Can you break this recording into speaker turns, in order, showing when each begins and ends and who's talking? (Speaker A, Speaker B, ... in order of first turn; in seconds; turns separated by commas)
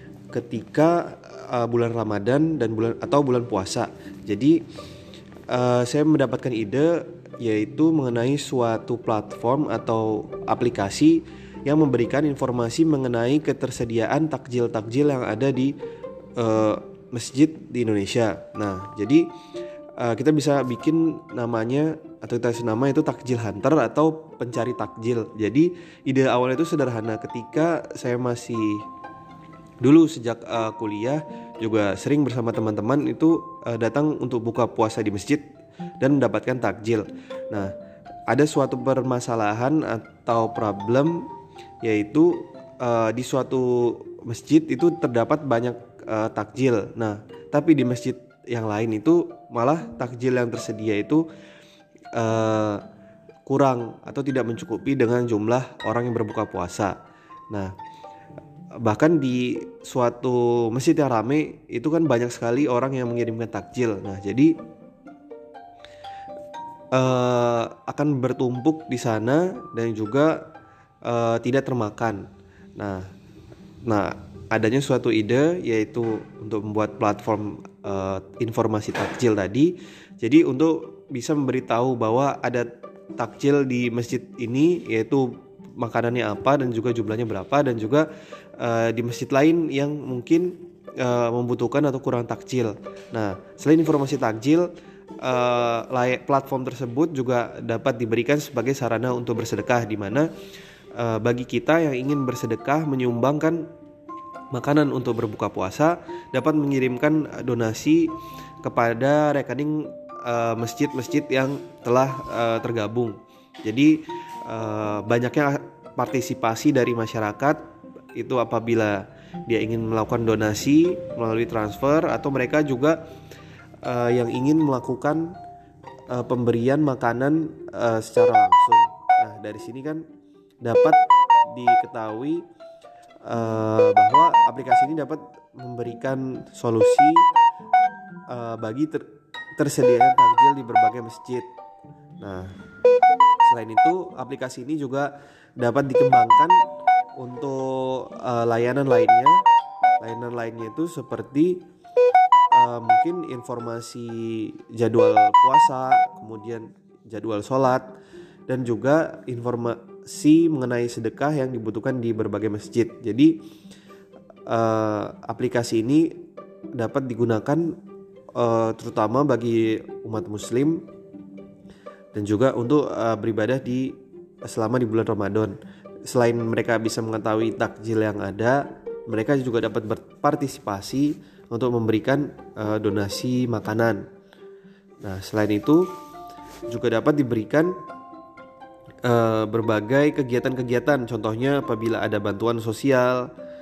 Speaker A: 0.3-4.6, Speaker A: 5.5-15.7, Speaker A: 16.4-19.3, Speaker A: 20.0-28.8, Speaker A: 29.8-35.4, Speaker A: 36.0-37.7, Speaker A: 38.3-41.3, Speaker A: 41.8-51.2, Speaker A: 52.1-52.8, Speaker A: 53.5-57.0, Speaker A: 58.8-64.5, Speaker A: 66.9-70.4, Speaker A: 71.0-73.1, Speaker A: 73.8-94.7, Speaker A: 95.2-100.3, Speaker A: 100.9-103.6, Speaker A: 104.5-117.6, Speaker A: 118.1-123.0, Speaker A: 123.8-125.3, Speaker A: 126.1-130.0, Speaker A: 130.6-132.4, Speaker A: 133.2-137.3, Speaker A: 138.3-139.0, Speaker A: 139.6-141.5, Speaker A: 142.2-142.5, Speaker A: 143.4-146.6, Speaker A: 147.2-149.4, Speaker A: 150.0-151.6, Speaker A: 152.5-157.9, Speaker A: 158.5-163.3, Speaker A: 164.5-166.2, Speaker A: 166.7-167.8, Speaker A: 168.3-170.8, Speaker A: 172.1-175.6, Speaker A: 176.1-184.0, Speaker A: 185.0-185.9, Speaker A: 186.7-187.8, Speaker A: 189.0-193.3